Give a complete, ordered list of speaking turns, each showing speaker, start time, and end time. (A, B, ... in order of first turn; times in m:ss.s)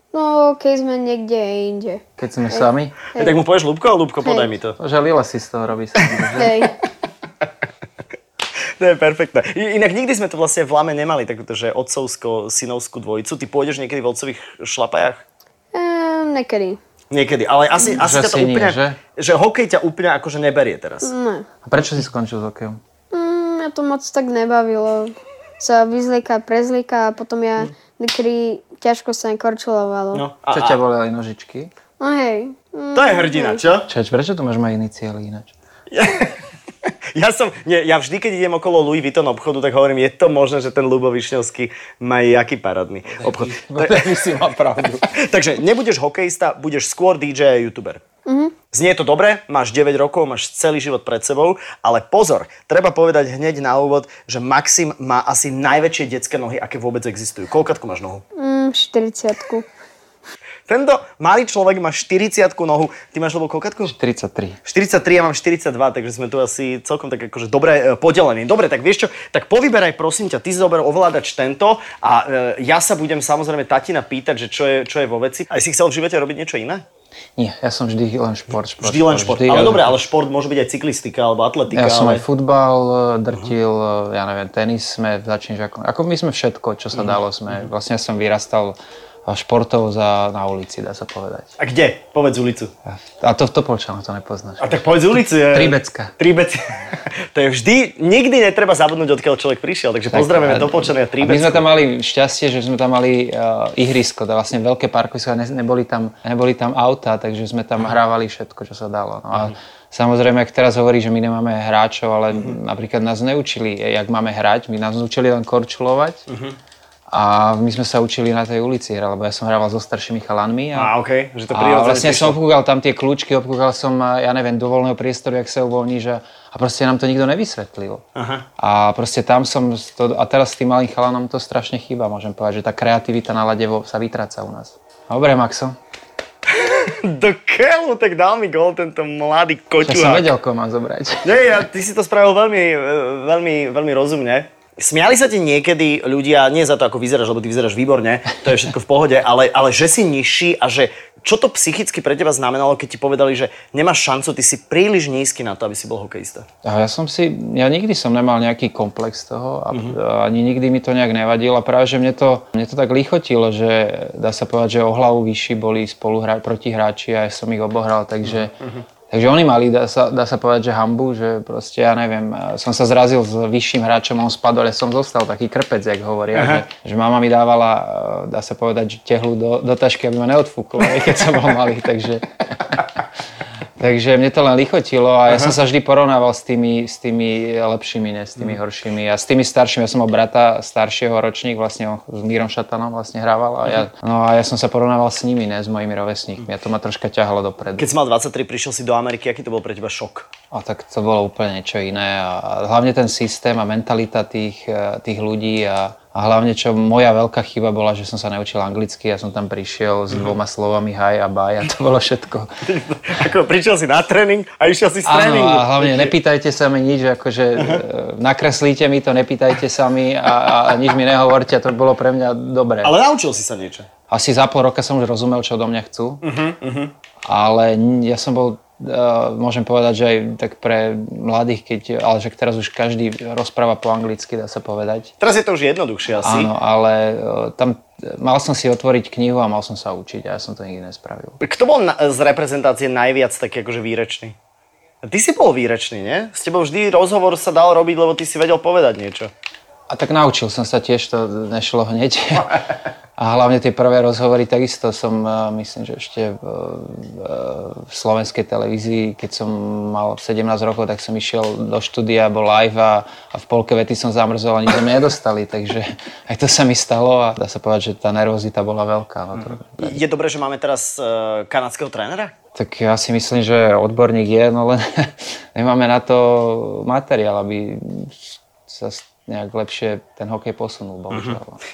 0:00.1-0:03.3 A
0:02.2-0:03.0 B
0:03.2-0:04.8 C
0:04.2-0:04.5 A
0:04.8-0:06.5 B
0:06.4-0:06.7 A
0:08.8-0:15.2 C
0:15.7-0:16.8 A
0:17.1-0:21.1 C
0:17.8-0:19.0 B
0:21.0-0:21.4 A
0:21.6-0:22.8 B
0:23.1-0:30.2 A
0:30.1-0:30.8 C
0:30.5-0:31.7 B
0:32.0-0:33.6 A
0:32.9-0:33.9 C
0:33.8-0:35.5 B
0:35.9-0:36.4 C
0:37.1-0:44.2 C
0:43.1-0:45.0 B
0:45.1-0:48.0 C
0:48.2-0:48.5 A
0:48.7-0:58.2 C
0:58.4-0:59.6 A
1:00.7-1:03.9 C
1:03.9-1:04.6 B
1:04.6-1:16.8 C
1:17.4-1:20.0 B
1:18.8-1:22.2 C
1:21.7-1:31.5 B
1:26.9-1:27.7 C
1:31.6-1:32.7 C
1:32.8-1:36.1 B
1:34.6-1:36.8 C
1:37.3-1:41.7 C
1:40.1-1:56.2 B
1:56.3-1:56.6 C
1:57.1-2:00.9 B
2:00.7-2:02.4 C
2:01.5-2:08.0 B
2:08.1-2:08.4 C
2:08.6-2:15.8 B
2:16.5-2:20.3 C
2:19.8-2:21.4 B
2:21.2-2:36.4 C
2:36.6-2:48.5 B
2:39.7-2:40.0 C
2:48.2-2:48.8 C
2:49.1-3:02.7 B
2:56.3-2:56.6 C
3:03.8-3:17.9 B
3:05.3-3:05.6 C
3:17.8-3:20.3 C
3:20.5-3:32.5 B
3:30.1-3:30.4 C
3:32.7-3:36.1 C
3:35.0-3:42.9 B
3:37.6-3:37.8 C
3:42.8-3:43.9 C
3:44.1-3:46.2 B
3:46.2-3:46.9 C
3:47.2-3:55.1 B
3:55.2-3:56.5 C
3:56.2-4:01.4 B
4:01.4-4:04.3 C
4:05.0-4:09.3 C
4:09.9-4:12.6 B
4:13.2-4:30.0 B
4:29.4-4:32.3 C
4:32.5-4:41.6 B
4:41.1-4:41.4 C